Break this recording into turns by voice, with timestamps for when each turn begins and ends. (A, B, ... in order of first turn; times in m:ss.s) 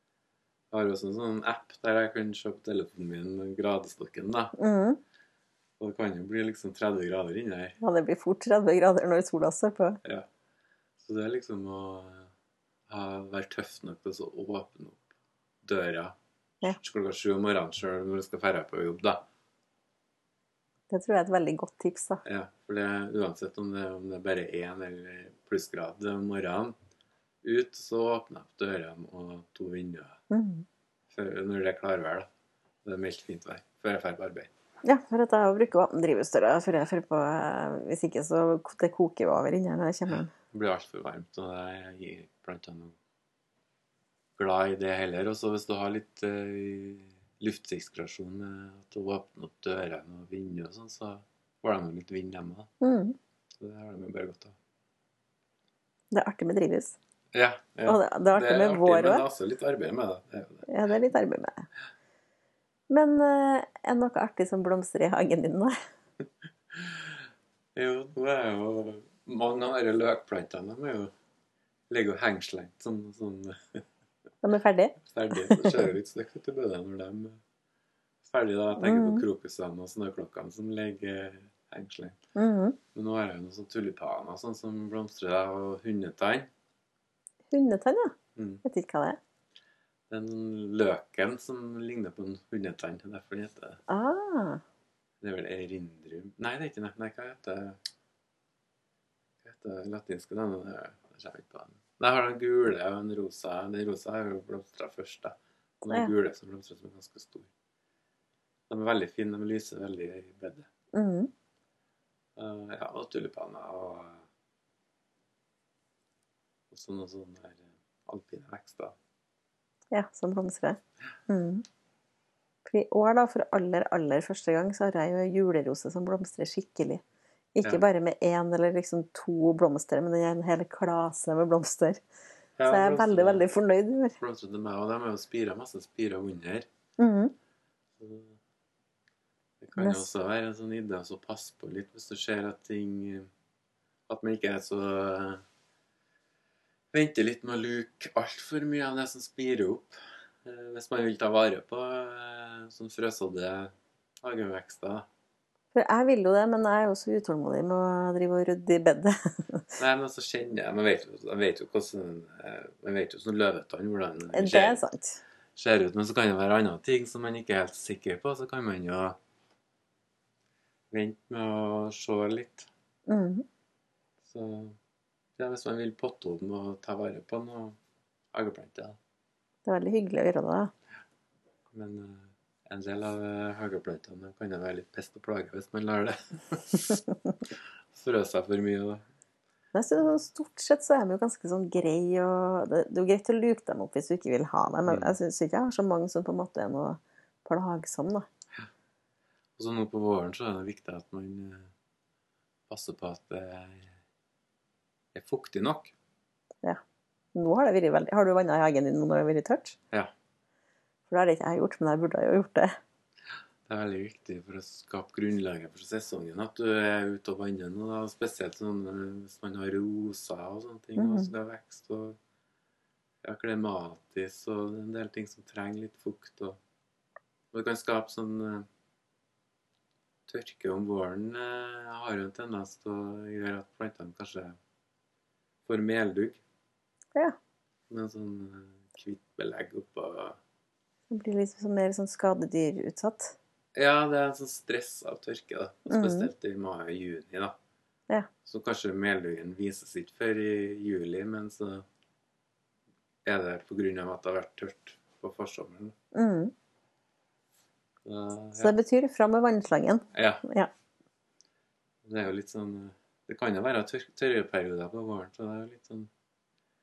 0:00.7-0:04.5 A
0:04.6-0:05.0 B
0:05.8-0:07.8 A
0:07.8-0:10.0 B
0:11.0-0:12.3 A
0:12.9-0:15.0 A
0:15.6-0:19.2 A
0:20.9-0:22.2 B
0:22.2-0:26.8 A
0:27.4-0:30.2 A
0:30.3-0:30.6 B
0:31.1-0:32.3 A
0:32.8-0:34.5 A
0:34.8-0:40.3 B
0:40.5-0:43.0 A
0:44.4-0:52.7 A
0:52.8-0:53.2 B
0:53.6-0:54.6 A
0:56.1-0:56.9 B
0:57.3-1:00.6 A
0:57.8-0:59.2 B
1:00.7-1:01.7 B
1:02.9-1:05.8 B
1:06.7-1:07.2 A
1:07.7-1:11.1 A
1:11.9-1:13.8 A
1:14.4-1:15.8 B
1:15.0-1:17.4 A
1:18.2-1:22.2 A
1:18.8-1:19.2 B
1:22.4-1:22.8 B
1:22.9-1:26.5 A
1:27.5-1:29.2 B
1:28.4-1:28.6 A
1:30.1-1:33.8 A
1:33.9-1:34.6 B
1:35.2-1:37.8 A
1:39.4-1:47.5 A
1:48.7-1:50.7 A
1:50.9-1:51.3 B
1:52.4-1:54.2 A
1:56.7-1:59.0 A
1:59.9-2:01.6 B
2:02.6-2:07.0 B
2:07.5-2:12.0 B
2:12.6-2:13.5 A
2:12.7-2:14.2 B
2:14.2-2:16.7 A
2:17.0-2:17.3 B
2:18.0-2:18.4 A
2:19.6-2:23.3 A
2:19.8-2:20.1 B
2:24.1-2:25.4 A
2:26.9-2:35.1 A
2:35.7-2:39.6 B
2:39.8-2:44.8 A
2:44.3-2:45.2 B
2:45.6-2:49.2 A
2:50.9-2:52.7 A
2:53.1-2:53.4 B
2:54.2-2:54.8 A
2:55.4-2:57.8 A
2:58.3-2:59.0 A
2:59.6-3:00.7 B
3:01.7-3:07.0 A
3:07.9-3:09.0 A
3:09.7-3:18.3 B
3:14.9-3:15.1 A
3:19.6-3:21.7 A
3:22.7-3:23.9 A
3:25.1-3:25.9 A
3:27.3-3:29.8 B
3:31.1-3:32.7 B
3:33.6-3:42.2 A
3:41.0-3:41.3 B
3:43.2-3:46.6 A
3:47.5-3:48.6 A
3:50.3-3:54.6 A
3:55.6-3:56.4 A
3:57.9-4:00.4 A
4:01.1-4:03.3 B
4:03.7-4:07.6 A
4:05.9-4:06.3 B
4:08.4-4:11.8 A
4:13.2-4:15.9 A
4:16.1-4:16.5 B
4:18.0-4:18.8 A
4:18.6-4:20.7 B
4:20.1-4:20.4 A
4:22.0-4:26.1 A